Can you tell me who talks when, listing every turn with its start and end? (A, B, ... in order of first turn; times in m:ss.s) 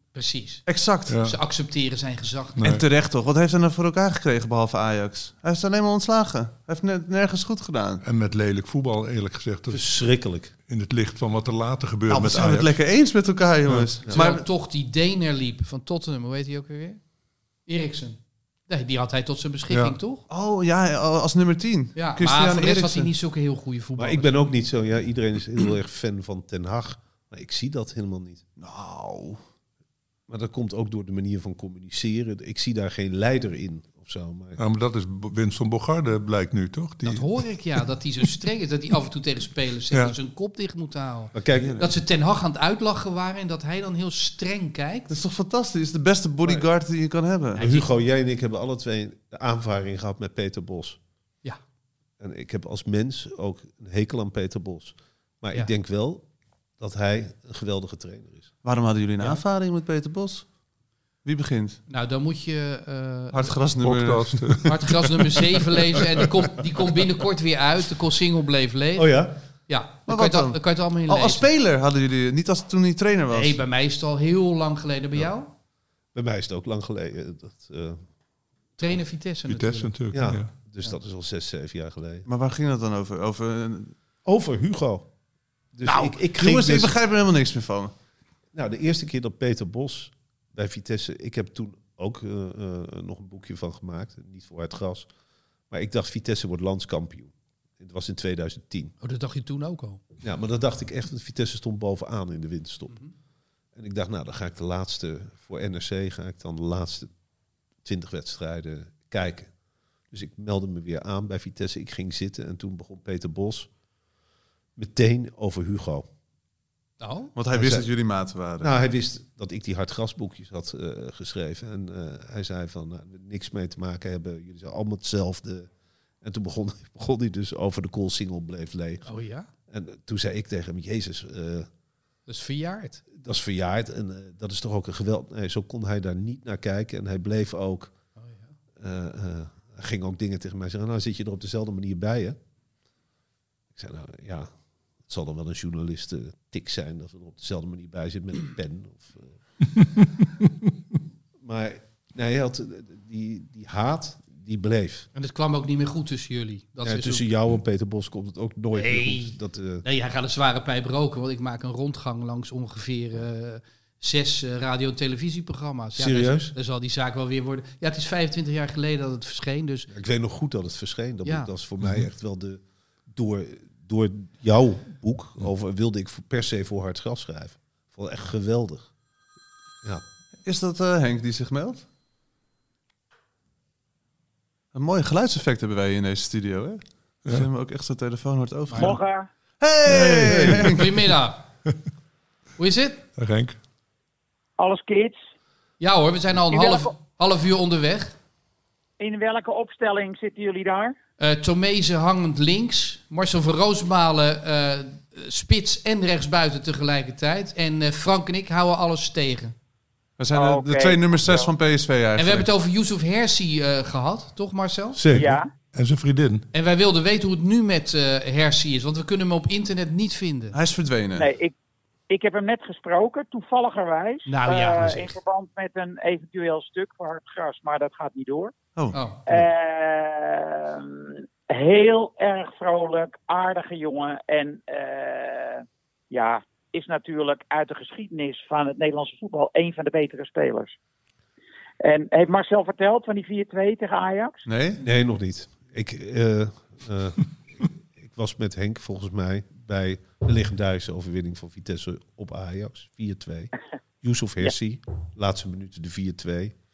0:00.1-0:00.6 A
0:00.7-0:01.2 B
0:01.1-0:01.4 C
0:01.2-0:02.6 A
0:02.6-0:02.8 C
0:02.6-0:08.0 B
0:08.0-0:09.9 C
0:09.7-0:10.5 D
0:10.6-0:12.8 C
0:12.1-0:14.4 B
0:14.1-0:17.0 A
0:17.6-0:20.2 A
0:19.7-0:20.0 C
0:20.3-0:23.1 B
0:22.0-0:24.5 A
0:24.0-0:28.4 D
0:28.6-0:29.4 B
0:30.3-0:34.6 D
0:34.6-0:37.5 C
0:37.0-0:45.1 A
0:39.9-0:40.2 C
0:41.3-0:41.8 D
0:41.6-0:41.9 B
0:45.1-0:47.6 B
0:47.6-0:47.9 A
0:47.6-0:51.0 D
0:52.2-0:56.3 D
0:56.8-0:58.5 D
0:58.6-1:00.5 B
1:01.2-1:01.8 B
1:01.9-1:03.5 A
1:03.3-1:04.6 B
1:03.8-1:04.9 C
1:04.6-1:11.4 A
1:09.0-1:09.4 D
1:10.1-1:13.6 B
1:13.3-1:15.5 A
1:16.1-1:18.0 D
1:18.8-1:19.9 A
1:19.5-1:20.5 C
1:20.1-1:22.3 D
1:22.3-1:23.9 B
1:24.2-1:25.1 D
1:25.7-1:26.9 D
1:25.8-1:27.9 B
1:28.5-1:35.1 D
1:35.7-1:38.9 D
1:39.0-1:40.0 A
1:40.2-1:43.0 D
1:43.8-1:47.1 D
1:47.8-1:49.5 D
1:50.1-1:53.7 D
1:54.8-1:56.1 D
1:57.0-1:57.3 A
1:57.4-1:58.7 B
1:57.5-1:57.9 D
1:58.6-2:05.7 D
2:06.2-2:09.1 D
2:09.1-2:09.5 A
2:09.7-2:11.7 D
2:12.3-2:13.0 A
2:13.1-2:17.9 D
2:18.2-2:18.5 A
2:18.8-2:22.4 D
2:23.7-2:24.5 D
2:25.0-2:29.4 D
2:31.4-2:35.1 D
2:35.1-2:37.3 A
2:36.8-2:39.8 D
2:38.7-2:49.9 A
2:46.0-2:46.5 D
2:49.9-2:58.9 D
2:51.2-2:51.5 A
3:00.4-3:01.8 B
3:04.7-3:09.0 B
3:08.7-3:09.0 A
3:08.8-3:09.3 E
3:09.6-3:10.9 B
3:09.9-3:10.8 C
3:10.6-3:11.4 A
3:12.6-3:13.0 A
3:13.2-3:13.6 C
3:14.6-3:15.2 E
3:15.8-3:18.1 A
3:16.5-3:16.9 E
3:19.0-3:20.9 E
3:21.2-3:29.6 A
3:30.2-3:32.5 B
3:30.3-3:31.5 E
3:32.2-3:35.0 A
3:34.9-3:35.4 D
3:35.1-3:35.5 E
3:35.8-3:36.4 C
3:36.5-3:40.6 A
3:40.5-3:41.3 B
3:41.2-3:41.5 E
3:42.1-3:48.5 E
3:44.3-3:45.2 A
3:48.9-3:49.2 A
3:49.3-4:00.8 E
4:01.8-4:04.4 E
4:04.4-4:04.8 B
4:04.8-4:16.6 D